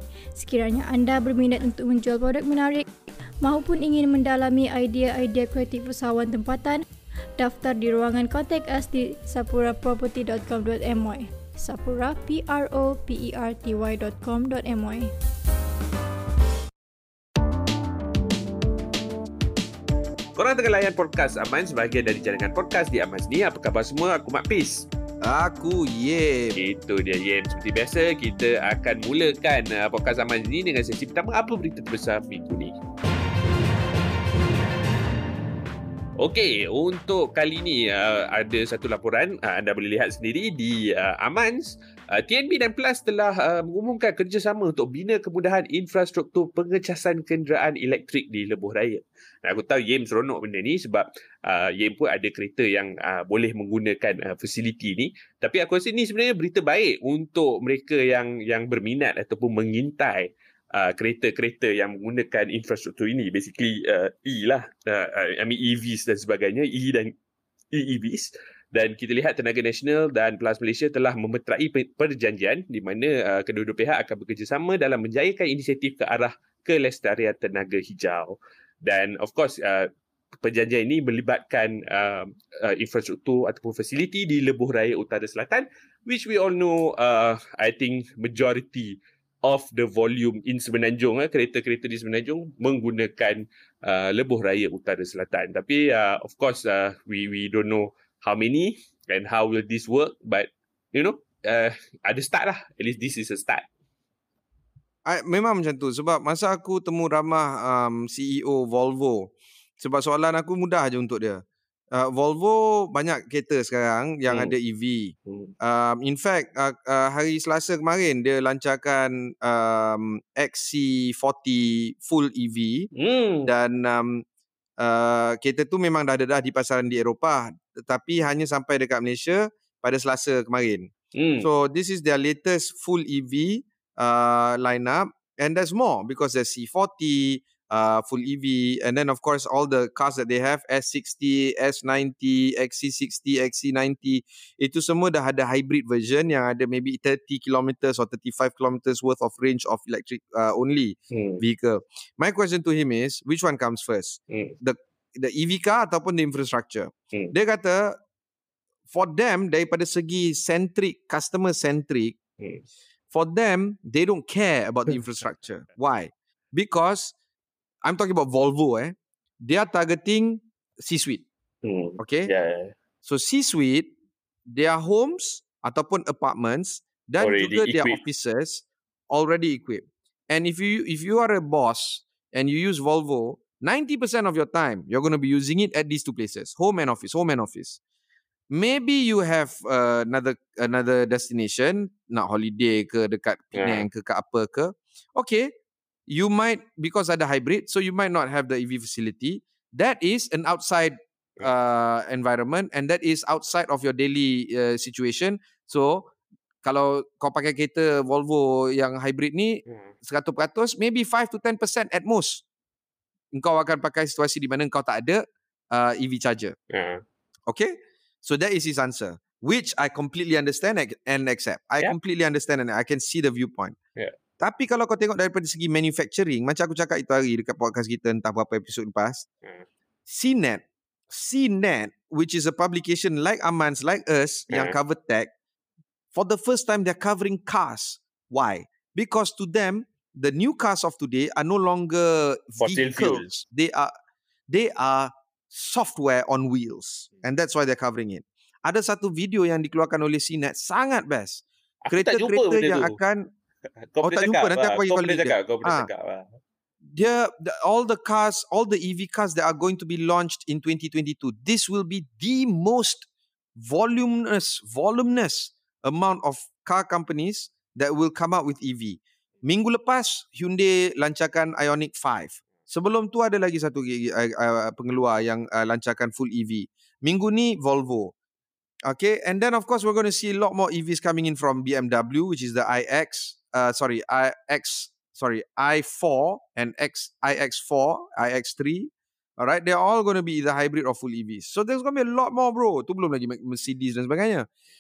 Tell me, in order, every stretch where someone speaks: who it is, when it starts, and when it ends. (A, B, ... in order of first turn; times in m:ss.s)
0:00.4-0:02.9 A
0:03.4-0:06.8 A
0:07.4-0:15.1 A
0:20.4-0:24.9 B
0:25.2-0:26.6 C
0:26.6-0:32.7 B
0:36.2-1:07.1 B
1:07.7-1:43.7 B
1:45.1-2:02.9 C
1:54.3-1:54.6 B
1:55.3-1:55.5 B
2:03.0-2:03.5 B
2:03.4-2:04.2 C
2:04.8-2:38.0 C
2:11.1-2:11.5 B
2:31.1-2:31.4 B
2:34.3-2:34.6 B
2:38.9-2:42.2 C
2:42.4-2:42.6 B
2:43.1-2:47.1 C
2:47.8-2:51.2 C
2:51.6-2:52.7 B
2:52.0-2:52.3 C
2:53.0-2:53.9 C
2:54.5-3:07.8 C
2:57.2-2:58.0 B
3:08.5-3:15.5 C
3:13.6-3:13.9 B
3:16.1-3:26.1 C
3:26.6-3:32.4 C
3:33.3-3:36.6 C
3:36.7-3:37.0 B
3:37.5-3:43.8 C
3:44.4-3:49.3 C
3:50.1-3:55.3 C
3:54.5-3:54.8 B
3:56.1-4:03.9 C
4:02.6-4:03.3 B
4:04.5-4:13.3 C
4:11.8-4:13.0 B
4:13.9-4:16.4 B
4:14.0-4:15.9 C
4:16.8-4:38.1 C
4:38.9-4:54.5 C